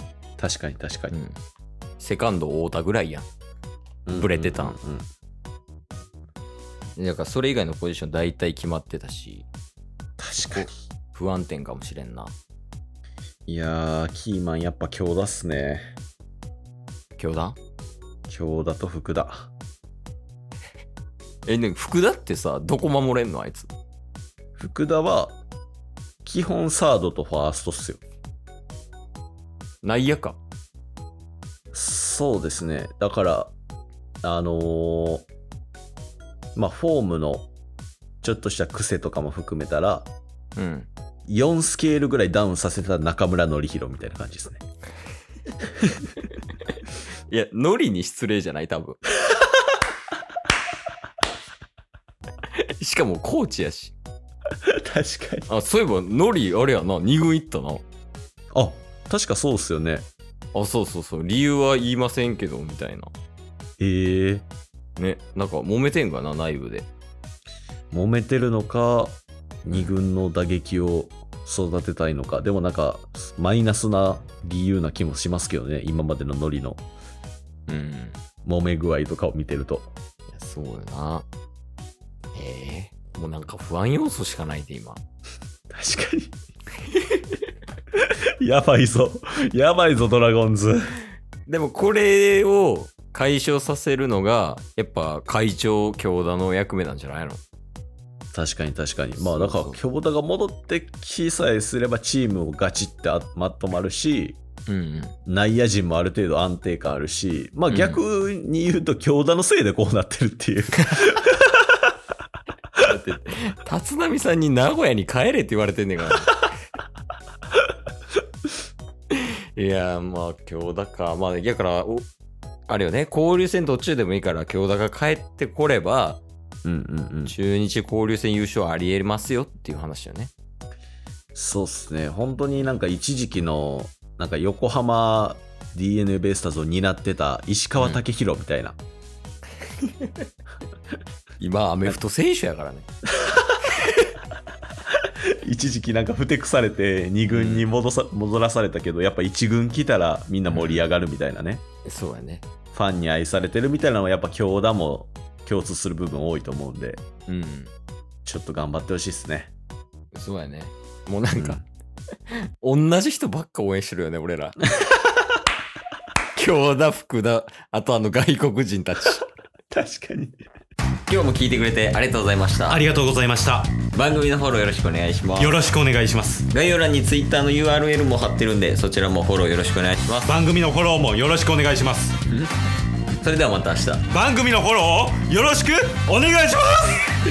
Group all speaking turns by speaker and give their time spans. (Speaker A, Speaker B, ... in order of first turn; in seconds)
Speaker A: 0.4-1.1, 4.1-5.0, 10.2-10.8, 13.5-15.9, 18.3-19.5, 24.6-25.4, 26.2-28.0, 31.7-33.5, 34.2-35.2, 36.5-37.5, 38.2-40.1, 41.3-44.6, 45.8-46.1, 54.6-55.5, 58.5-60.0, 63.8-64.5, 67.9-76.8, 78.4-79.9, 85.7-86.3, 87.9-90.9, 98.3-104.4, 105.2-111.9, 126.6-127.3, 131.3-138.8, 143.2-143.6, 145.0-151.6, 152.7-157.0, 158.2-159.5, 161.3-161.6, 169.7-170.4, 175.6-175.9
Speaker B: 1.1-1.4, 2.0-3.2, 4.1-4.8, 7.0-9.5, 10.4-12.3, 17.2-17.6, 21.4-23.7, 29.8-30.4, 40.5-40.9, 47.3-49.0, 52.5-54.0, 55.5-57.8, 60.5-63.1, 65.0-66.9, 69.7-69.9, 77.7-78.2, 80.3-81.3, 82.3-85.0, 86.8-87.4, 91.5-97.4, 99.2-99.8, 104.7-105.1, 107.7-108.0, 112.8-116.3, 119.1-122.0, 122.7-126.2, 127.3-130.3, 139.8-140.2, 141.4-142.9, 143.7-144.0, 147.3-147.7, 150.5-150.9, 151.8-152.4, 157.3-157.7, 160.1-161.6, 162.3-164.6, 166.3-169.3, 171.1-172.8, 173.9-175.6, 176.5-180.3, 183.2-184.1
Speaker C: 172.7-173.7, 175.4-176.4, 180.2-182.2, 184.1-187.0